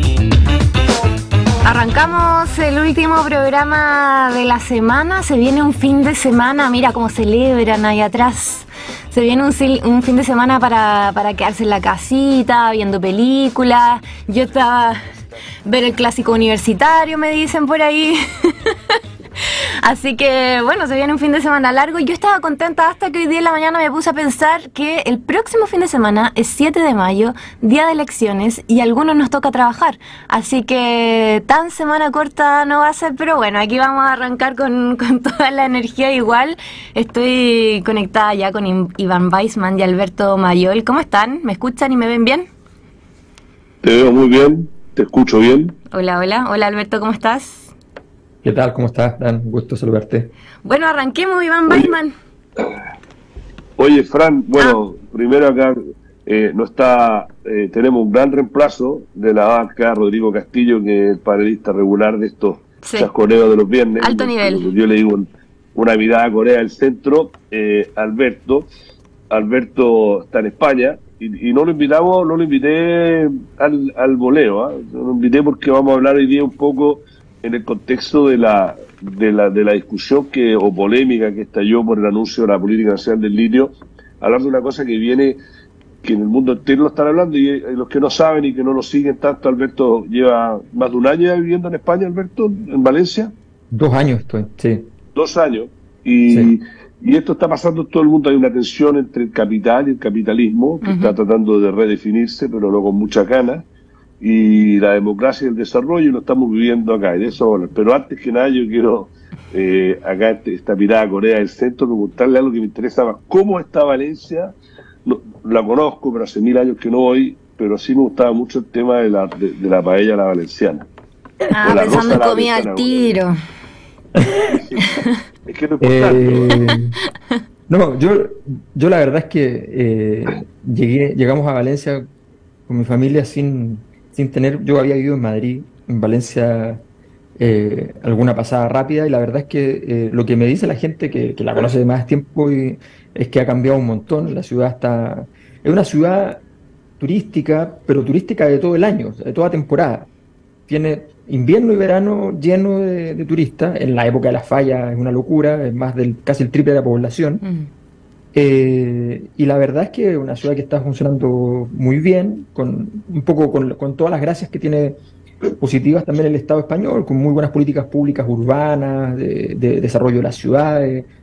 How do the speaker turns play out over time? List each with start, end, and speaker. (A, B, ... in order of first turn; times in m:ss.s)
0:01.6-0:15.1 A
0:15.6-0:19.0 A
0:19.8-0:42.5 A
0:43.8-0:45.8 B
0:45.9-0:47.7 A
0:48.4-0:50.3 C
0:50.6-0:52.1 A
0:53.8-1:08.7 B
1:02.8-1:03.1 A
1:04.0-1:04.7 A
1:09.3-1:25.4 B
1:26.0-1:33.3 B
1:33.7-1:34.9 C
1:35.1-1:43.7 B
1:40.8-1:41.2 A
1:44.2-2:00.9 B
2:01.5-2:03.4 A
2:01.6-2:03.2 B
2:04.2-2:04.6 C
2:04.5-2:04.8 B
2:04.8-2:05.1 A
2:05.5-2:06.6 B
2:05.8-2:06.9 C
2:07.7-2:12.1 C
2:12.7-2:16.8 C
2:17.4-2:26.4 C
2:27.0-2:30.1 C
2:30.7-2:37.4 C
2:37.4-2:37.7 A
2:38.3-2:51.1 C